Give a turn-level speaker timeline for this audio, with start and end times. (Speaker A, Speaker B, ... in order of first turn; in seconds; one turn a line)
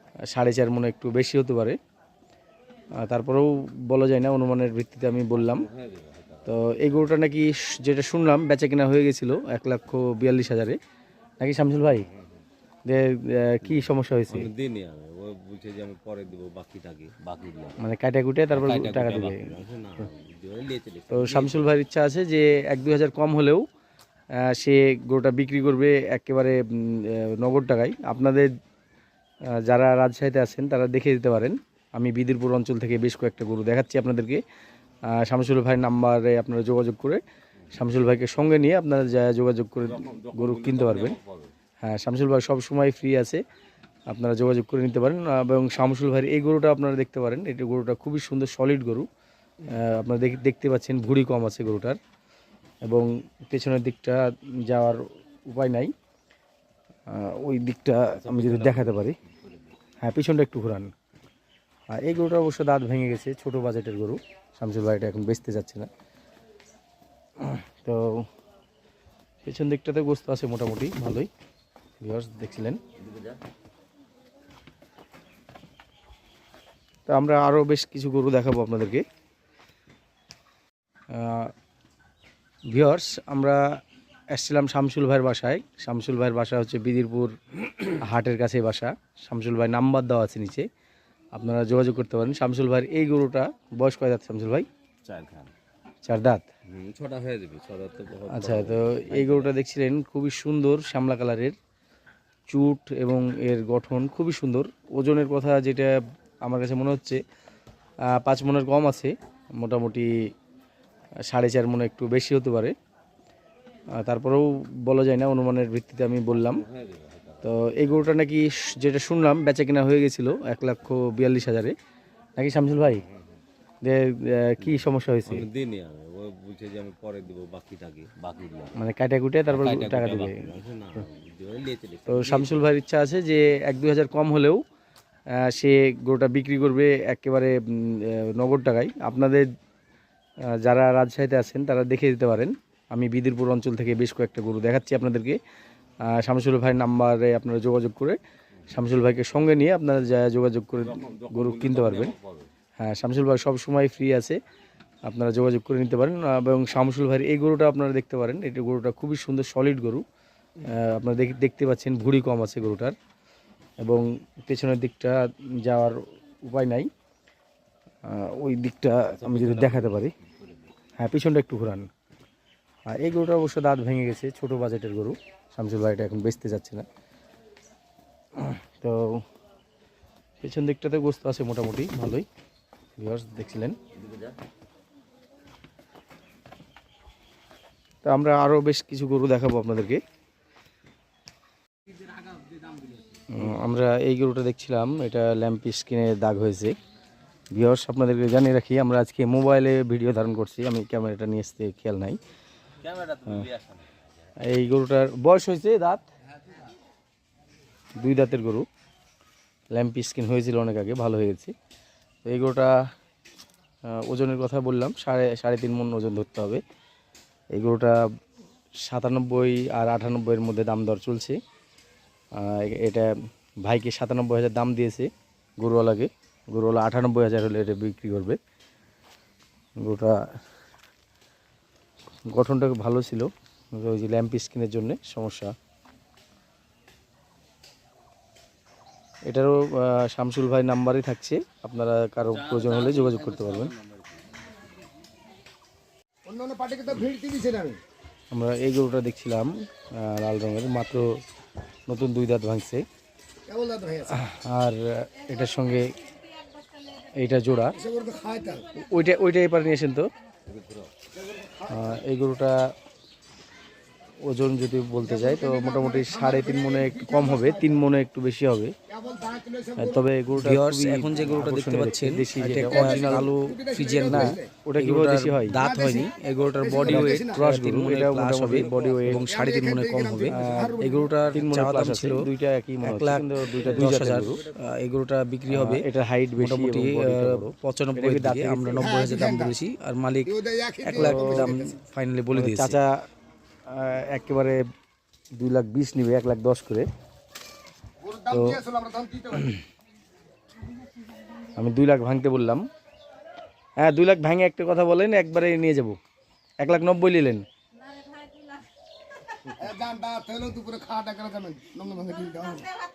Speaker A: 0.3-1.8
Speaker A: 3.0-5.7
Speaker B: 5.3-6.5
Speaker A: 6.5-10.8
Speaker A: 11.4-12.1
Speaker A: 12.8-14.5
Speaker B: 13.7-17.8
Speaker A: 17.8-19.5
Speaker B: 18.5-21.7
Speaker A: 21.1-23.6
Speaker A: 24.4-28.5
Speaker A: 29.5-34.4
Speaker A: 35.1-37.2
Speaker A: 37.7-41.2
Speaker B: 39.8-41.5
Speaker A: 41.8-43.4
Speaker A: 44.1-49.1
Speaker A: 49.7-52.0
Speaker A: 52.8-55.9
Speaker A: 57.1-59.1
Speaker B: 58.1-59.7
Speaker A: 60.0-60.9
Speaker A: 61.9-65.9
Speaker A: 67.4-68.3
Speaker A: 69.4-71.3
Speaker A: 72.0-72.8
Speaker B: 73.0-73.3
Speaker A: 77.1-79.0
Speaker A: 81.1-81.5
Speaker A: 82.7-83.8
Speaker A: 84.3-90.7
Speaker A: 91.3-94.7
Speaker B: 95.0-95.5
Speaker A: 96.0-96.5
Speaker B: 96.7-99.5
Speaker A: 98.3-101.5
Speaker A: 102.5-107.2
Speaker A: 108.1-110.1
Speaker A: 111.3-112.7
Speaker A: 114.0-116.6
Speaker B: 116.3-117.5
Speaker A: 117.4-121.7
Speaker A: 122.4-123.0
Speaker A: 123.8-125.5
Speaker B: 124.6-128.7
Speaker A: 128.7-130.5
Speaker B: 129.5-132.6
Speaker A: 132.1-134.6
Speaker A: 135.3-139.4
Speaker A: 140.5-145.4
Speaker A: 146.1-148.2
Speaker A: 148.7-152.1
Speaker B: 150.8-152.5
Speaker A: 152.8-154.4
Speaker A: 155.0-160.0
Speaker A: 160.6-162.9
Speaker A: 163.8-166.9
Speaker A: 168.1-170.1
Speaker B: 169.1-170.7
Speaker A: 171.0-171.9
Speaker A: 172.9-176.8
Speaker A: 178.4-179.2
Speaker A: 180.4-182.2
Speaker A: 183.0-183.8
Speaker B: 184.0-184.3
Speaker A: 188.0-190.0
Speaker A: 193.3-196.8
Speaker A: 197.5-202.2
Speaker B: 202.8-204.0
Speaker A: 204.4-206.0
Speaker A: 208.0-208.7
Speaker A: 209.7-211.5
Speaker A: 212.2-212.7
Speaker A: 213.9-216.6
Speaker A: 217.5-218.0
Speaker A: 218.8-221.4
Speaker A: 222.3-223.1
Speaker A: 223.6-225.1
Speaker A: 225.6-228.4
Speaker A: 229.8-230.1
Speaker A: 232.3-235.5
Speaker A: 239.3-243.7
Speaker B: 242.2-244.2
Speaker C: 246.2-247.8
Speaker A: 248.3-251.1
Speaker A: 251.9-252.8
Speaker C: 253.5-254.2
Speaker A: 254.1-255.9
Speaker A: 257.1-257.8
Speaker C: 257.7-258.6
Speaker A: 258.8-260.1
Speaker B: 260.5-260.9
Speaker C: 261.1-262.0
Speaker A: 261.7-262.7
Speaker A: 264.2-268.7
Speaker C: 265.0-267.8
Speaker C: 268.9-270.1
Speaker A: 269.8-273.4
Speaker D: 270.3-285.9
Speaker C: 272.6-274.6
Speaker A: 274.0-279.3
Speaker C: 275.5-277.4
Speaker C: 278.6-281.4
Speaker A: 280.2-284.4
Speaker B: 283.5-284.6
Speaker A: 285.5-290.3
Speaker D: 286.4-289.9
Speaker C: 288.7-289.6
Speaker C: 290.2-291.8
Speaker A: 290.8-291.8
Speaker D: 290.9-292.8
Speaker A: 292.3-292.8
Speaker A: 293.7-294.6
Speaker A: 295.3-296.9
Speaker C: 298.0-299.5
Speaker A: 298.3-298.6
Speaker A: 301.5-302.7
Speaker A: 303.8-306.0
Speaker A: 306.6-307.4
Speaker C: 309.5-312.7